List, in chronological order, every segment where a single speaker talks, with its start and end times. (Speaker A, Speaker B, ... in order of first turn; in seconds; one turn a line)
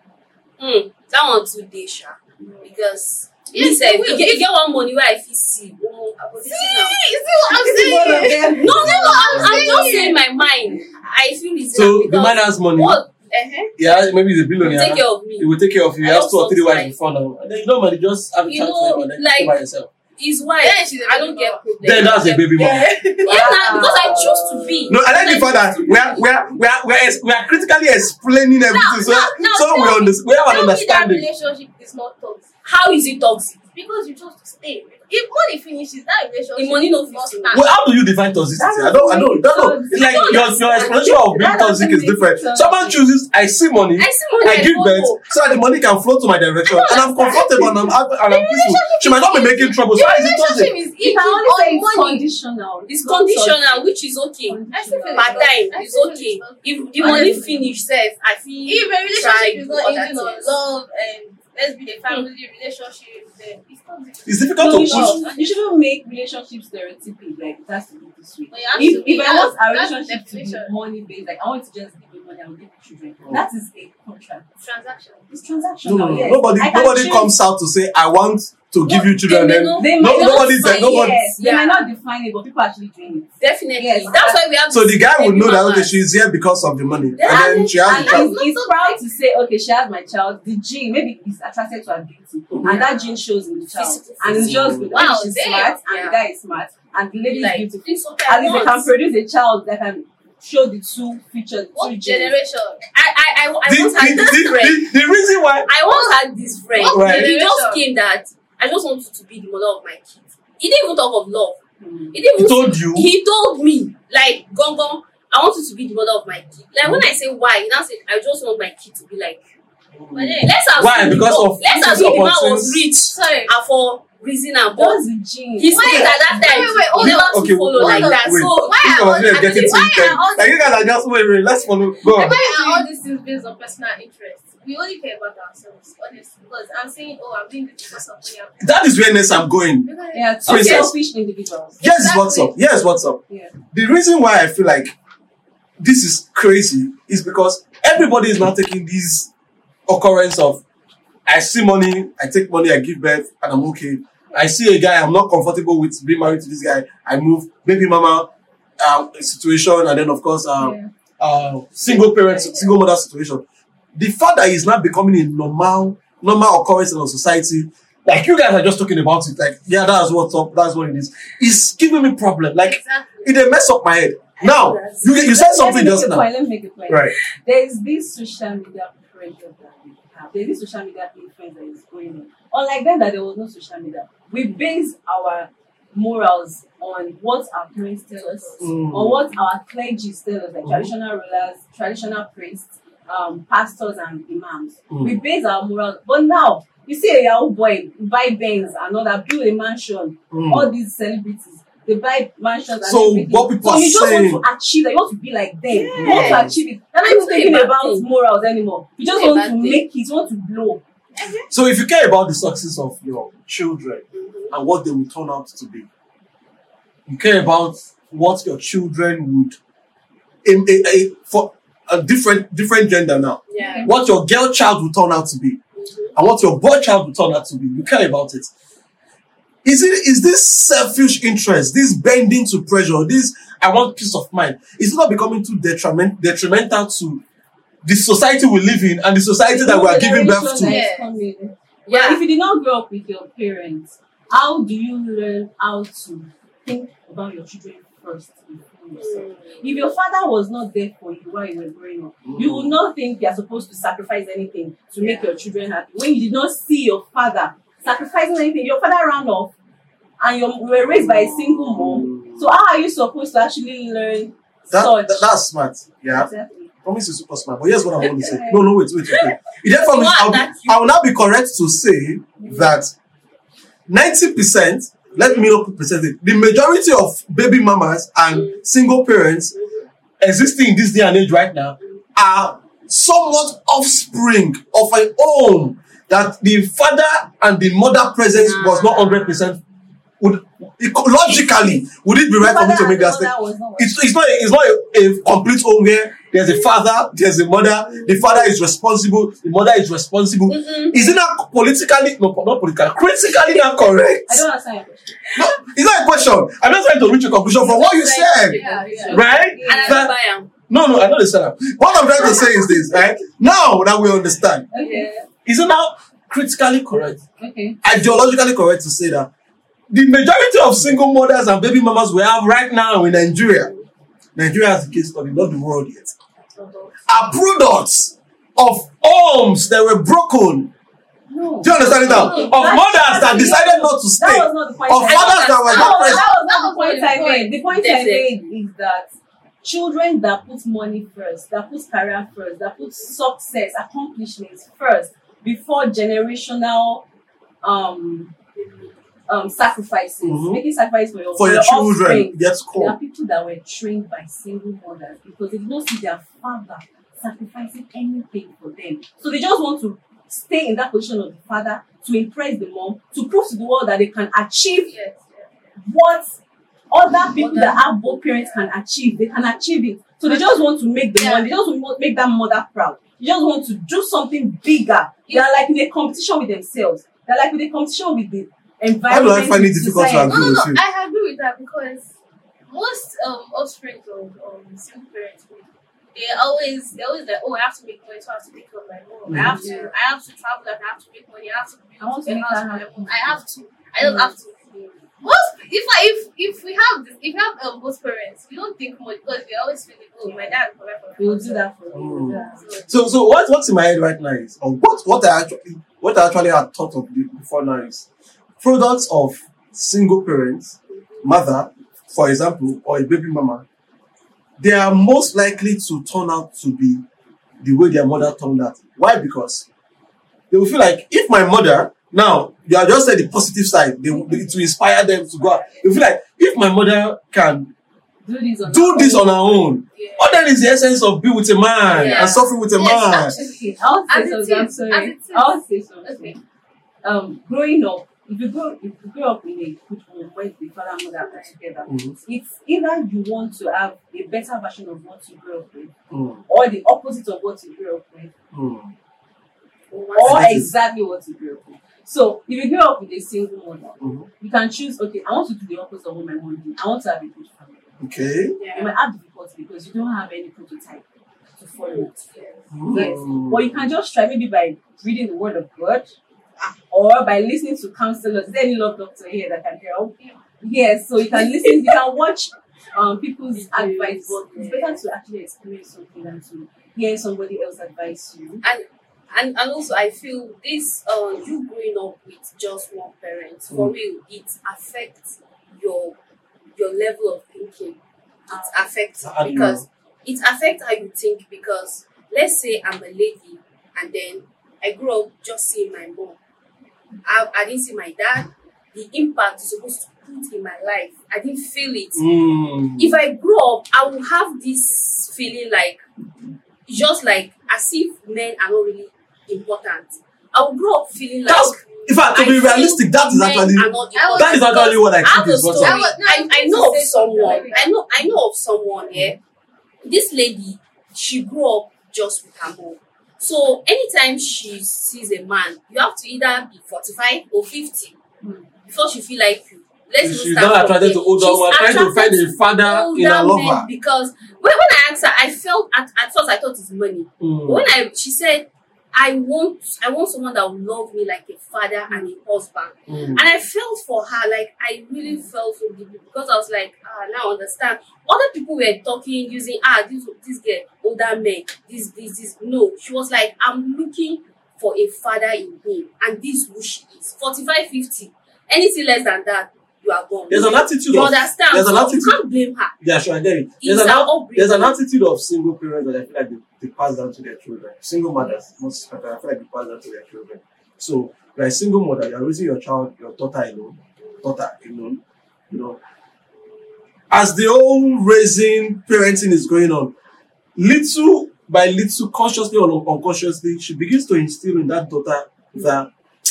Speaker A: 0.6-7.0
Speaker B: 2.4-2.7
Speaker B: 3.5-4.4
Speaker B: 6.5-10.2
Speaker C: 7.5-9.0
Speaker A: 8.6-13.1
Speaker D: 8.7-9.9
Speaker D: 11.7-13.0
Speaker B: 13.3-13.7
Speaker D: 13.8-19.9
Speaker A: 14.6-17.0
Speaker A: 18.5-19.6
Speaker A: 20.2-26.1
Speaker B: 20.6-24.2
Speaker D: 21.8-22.9
Speaker C: 23.3-25.0
Speaker D: 24.9-31.2
Speaker B: 28.7-32.5
Speaker A: 32.6-33.6
Speaker B: 33.7-37.7
Speaker A: 36.6-37.7
Speaker D: 37.5-50.7
Speaker C: 38.6-43.0
Speaker A: 39.9-41.0
Speaker A: 44.0-45.2
Speaker B: 46.7-52.2
Speaker C: 51.0-53.8
Speaker A: 52.9-60.6
Speaker C: 54.5-55.5
Speaker B: 54.7-57.5
Speaker C: 57.0-57.7
Speaker B: 58.6-65.7
Speaker D: 64.3-65.2
Speaker C: 64.6-74.5
Speaker B: 68.5-70.7
Speaker A: 68.8-69.1
Speaker B: 74.6-75.3
Speaker C: 75.3-77.3
Speaker D: 75.8-81.3
Speaker A: 78.9-81.9
Speaker C: 79.8-84.4
Speaker A: 83.4-85.9
Speaker D: 84.7-88.3
Speaker C: 87.2-102.4
Speaker B: 87.6-89.0
Speaker A: 93.7-96.2
Speaker D: 94.3-94.9
Speaker B: 94.9-95.8
Speaker A: 97.2-98.9
Speaker B: 101.8-102.8
Speaker A: 102.9-104.9
Speaker D: 103.7-105.7
Speaker A: 105.7-111.6
Speaker B: 105.8-106.2
Speaker B: 106.7-107.8
Speaker D: 106.8-107.4
Speaker C: 111.8-112.1
Speaker A: 112.1-119.4
Speaker D: 112.4-113.1
Speaker D: 120.0-122.9
Speaker B: 120.1-120.5
Speaker A: 120.4-125.0
Speaker B: 123.1-123.5
Speaker C: 124.8-126.3
Speaker A: 125.6-130.2
Speaker B: 125.7-130.7
Speaker D: 125.8-126.2
Speaker D: 127.0-132.4
Speaker B: 132.1-138.6
Speaker C: 132.4-132.8
Speaker D: 138.6-139.9
Speaker B: 139.8-140.8
Speaker C: 140.1-141.8
Speaker D: 140.4-140.9
Speaker D: 141.8-143.2
Speaker B: 141.9-142.5
Speaker D: 143.7-144.9
Speaker D: 145.8-149.3
Speaker D: 149.9-150.6
Speaker D: 151.3-163.4
Speaker C: 160.6-160.9
Speaker B: 161.9-162.7
Speaker D: 163.9-176.3
Speaker B: 172.6-173.6
Speaker A: 174.4-175.1
Speaker C: 175.2-210.8
Speaker D: 176.9-177.1
Speaker D: 188.6-189.2
Speaker D: 190.6-190.9
Speaker D: 194.9-195.2
Speaker D: 200.3-200.7
Speaker D: 202.8-204.4
Speaker A: 205.7-206.5
Speaker B: 205.8-206.4
Speaker D: 205.9-206.5
Speaker A: 207.0-208.1
Speaker A: 209.1-209.8
Speaker B: 211.2-211.5
Speaker D: 211.5-215.9
Speaker A: 214.1-214.5
Speaker D: 217.1-219.6
Speaker D: 220.4-225.6
Speaker A: 223.5-223.9
Speaker C: 223.6-223.9
Speaker A: 225.8-226.2
Speaker D: 226.2-228.5
Speaker D: 229.6-237.2
Speaker D: 237.8-240.9
Speaker C: 239.4-259.5
Speaker B: 240.6-241.1
Speaker A: 241.9-242.2
Speaker A: 249.0-249.8
Speaker D: 252.2-252.7
Speaker C: 260.2-265.3
Speaker D: 260.8-262.4
Speaker D: 264.7-266.3
Speaker C: 266.1-266.7
Speaker D: 266.8-272.9
Speaker C: 268.0-268.7
Speaker A: 269.7-270.9
Speaker C: 272.4-272.8
Speaker D: 273.9-279.5
Speaker A: 278.3-278.6
Speaker A: 279.6-279.8
Speaker D: 280.2-289.6
Speaker A: 288.4-289.4
Speaker D: 290.2-304.4
Speaker C: 292.4-293.9
Speaker A: 300.5-301.1
Speaker C: 304.3-305.2
Speaker D: 305.4-308.6
Speaker A: 307.6-310.5
Speaker B: 308.5-309.3
Speaker C: 308.6-310.1
Speaker D: 309.1-310.1
Speaker D: 310.7-314.7
Speaker C: 314.7-315.3
Speaker B: 314.8-315.1
Speaker D: 315.4-317.2
Speaker C: 317.4-317.8
Speaker D: 317.8-319.3
Speaker D: 319.9-323.7
Speaker D: 324.4-326.1
Speaker B: 326.6-327.0
Speaker D: 327.1-330.7
Speaker C: 331.3-339.1
Speaker D: 331.6-336.2
Speaker A: 331.9-332.8
Speaker B: 332.0-332.7
Speaker A: 335.1-336.2
Speaker B: 335.7-337.5
Speaker A: 337.7-338.3
Speaker C: 339.6-347.0
Speaker C: 347.6-348.3
Speaker C: 349.3-364.9
Speaker D: 350.2-350.6
Speaker D: 351.4-353.0
Speaker B: 364.8-365.5
Speaker C: 365.8-366.4
Speaker C: 366.9-380.5
Speaker B: 367.4-368.6
Speaker B: 370.3-370.6
Speaker B: 371.2-371.6
Speaker B: 375.3-375.7
Speaker D: 379.1-380.8
Speaker B: 380.2-382.1
Speaker B: 382.7-401.7
Speaker D: 389.3-389.6
Speaker C: 389.3-389.9
Speaker C: 392.0-393.4
Speaker C: 394.0-394.3
Speaker C: 400.3-400.6
Speaker C: 401.2-402.6
Speaker D: 401.9-408.1
Speaker B: 402.3-403.0
Speaker D: 408.6-413.6
Speaker D: 414.6-417.0
Speaker D: 417.6-419.6
Speaker D: 420.5-427.7
Speaker B: 425.4-425.8
Speaker C: 428.2-429.7
Speaker D: 428.7-433.3
Speaker B: 430.0-430.3
Speaker A: 431.9-432.5
Speaker B: 432.0-436.4
Speaker C: 433.3-436.4
Speaker C: 437.0-445.9
Speaker D: 441.9-442.1
Speaker D: 446.1-446.4
Speaker C: 446.5-448.3
Speaker D: 448.5-448.9
Speaker A: 449.9-450.6
Speaker C: 450.2-457.9
Speaker D: 450.2-450.7
Speaker D: 454.0-454.3
Speaker D: 458.0-458.6
Speaker A: 458.6-458.9
Speaker C: 458.8-461.0
Speaker C: 461.6-462.2
Speaker B: 462.4-463.1
Speaker D: 462.7-463.9
Speaker C: 462.9-466.1
Speaker C: 466.9-478.6
Speaker A: 473.5-475.0
Speaker A: 478.6-486.1
Speaker A: 486.8-488.0
Speaker A: 488.5-496.4
Speaker D: 489.2-489.9
Speaker A: 497.2-502.2
Speaker D: 502.2-503.2
Speaker A: 503.0-506.0
Speaker A: 506.9-519.4
Speaker D: 511.5-516.0
Speaker B: 514.1-515.0
Speaker B: 515.8-517.9
Speaker C: 517.4-517.9
Speaker A: 520.0-528.2
Speaker A: 528.9-562.9
Speaker D: 530.2-533.9
Speaker D: 537.4-537.9
Speaker D: 543.1-543.4
Speaker D: 560.5-562.4
Speaker D: 563.0-576.0
Speaker A: 563.8-565.0
Speaker D: 577.3-580.1
Speaker D: 580.8-586.1